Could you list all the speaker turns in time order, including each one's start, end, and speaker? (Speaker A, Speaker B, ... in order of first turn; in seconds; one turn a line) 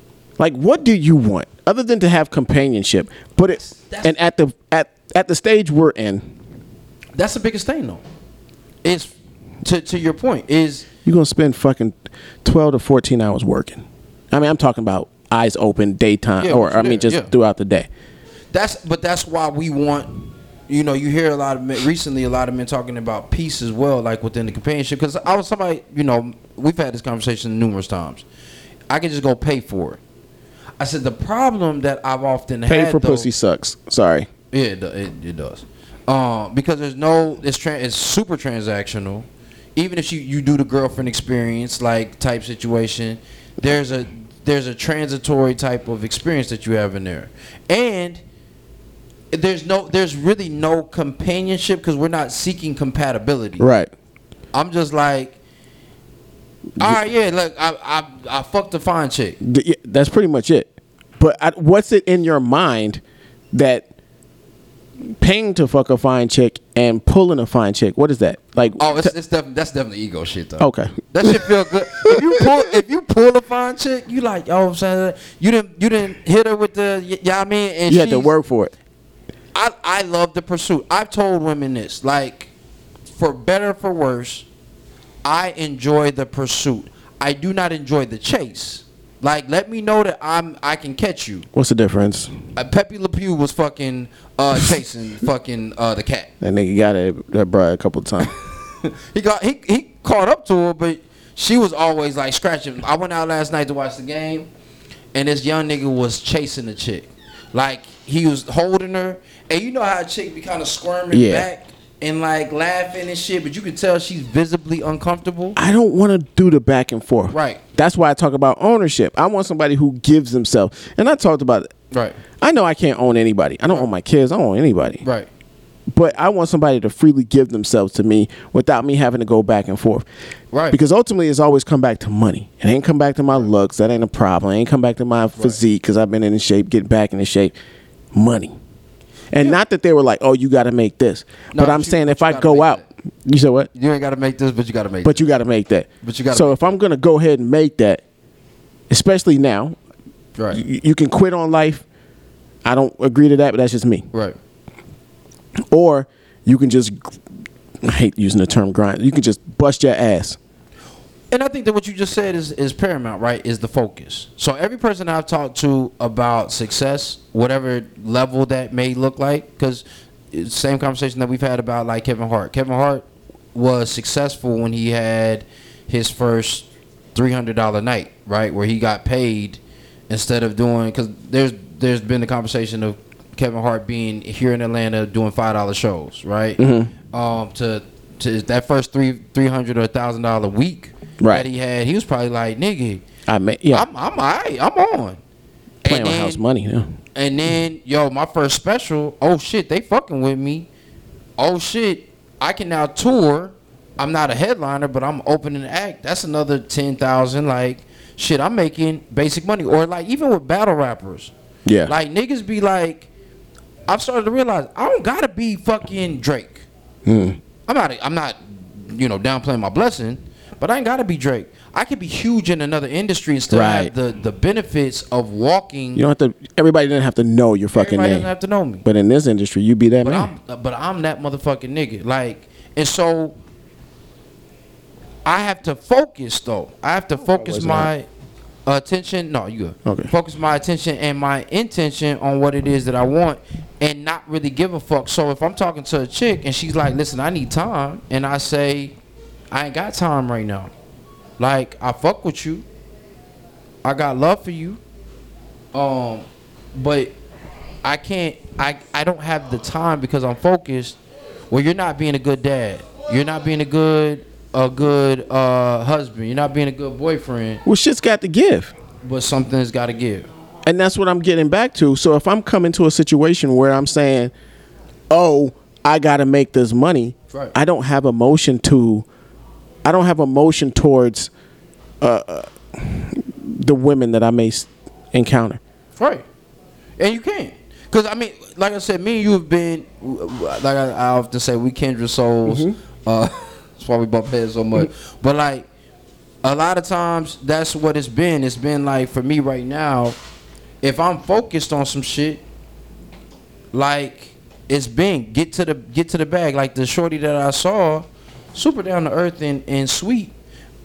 Speaker A: 0.4-6.2
Speaker B: 3.6-4.2
Speaker B: 7.2-8.0
Speaker B: 8.8-10.9
Speaker A: 11.1-17.9
Speaker B: 16.4-17.3
Speaker B: 18.5-20.1
Speaker B: 20.7-28.2
Speaker B: 28.9-30.0
Speaker B: 30.8-33.3
Speaker A: 32.7-34.3
Speaker B: 34.5-48.2
Speaker B: 49.3-53.6
Speaker A: 53.6-53.9
Speaker B: 54.5-55.4
Speaker B: 56.8-59.4
Speaker A: 59.4-63.0
Speaker A: 63.5-63.9
Speaker A: 65.2-69.1
Speaker B: 68.8-78.3
Speaker A: 70.6-72.5
Speaker A: 77.9-78.7
Speaker B: 79.5-82.5
Speaker B: 83.1-84.5
Speaker B: 85.2-91.5
Speaker A: 91.5-92.3
Speaker B: 92.5-96.3
Speaker A: 96.4-98.3
Speaker B: 98.2-104.5
Speaker B: 105.1-115.6
Speaker A: 111.1-111.5
Speaker A: 115.6-121.7
Speaker B: 117.3-117.6
Speaker B: 121.9-122.2
Speaker A: 122.4-125.0
Speaker B: 125.0-125.3
Speaker A: 125.9-130.1
Speaker B: 130.5-130.8
Speaker A: 130.7-137.5
Speaker A: 138.1-138.5
Speaker A: 139.3-143.7
Speaker B: 141.5-142.8
Speaker B: 143.7-145.2
Speaker A: 145.1-148.0
Speaker B: 146.0-146.8
Speaker A: 148.9-149.8
Speaker B: 150.4-150.6
Speaker A: 150.5-151.8
Speaker A: 152.7-154.1
Speaker A: 155.7-157.2
Speaker A: 157.8-160.4
Speaker B: 161.3-193.0
Speaker A: 186.6-186.9
Speaker A: 191.2-191.5
Speaker A: 193.3-193.9
Speaker B: 193.7-195.2
Speaker B: 195.8-196.4
Speaker A: 195.8-196.9
Speaker B: 197.2-200.7
Speaker B: 201.4-211.3
Speaker A: 211.7-211.9
Speaker B: 211.9-213.1
Speaker B: 213.9-216.7
Speaker A: 217.1-217.4
Speaker B: 217.7-226.0
Speaker A: 223.5-223.9
Speaker A: 225.9-228.3
Speaker B: 227.7-228.8
Speaker A: 228.8-230.3
Speaker B: 230.0-233.4
Speaker B: 235.2-238.1
Speaker A: 237.4-237.9
Speaker B: 238.7-249.0
Speaker A: 239.8-240.1
Speaker B: 249.5-250.7
Speaker B: 251.4-252.7
Speaker B: 253.8-254.8
Speaker B: 255.7-257.1
Speaker B: 257.8-261.0
Speaker B: 261.5-267.6
Speaker A: 267.6-268.7
Speaker B: 269.0-270.3
Speaker A: 270.7-274.3
Speaker A: 275.1-279.1
Speaker A: 279.9-281.3
Speaker A: 282.0-285.6
Speaker B: 286.0-286.3
Speaker B: 287.0-295.7
Speaker A: 292.5-292.8
Speaker B: 296.4-300.2
Speaker B: 300.8-302.4
Speaker B: 303.7-310.3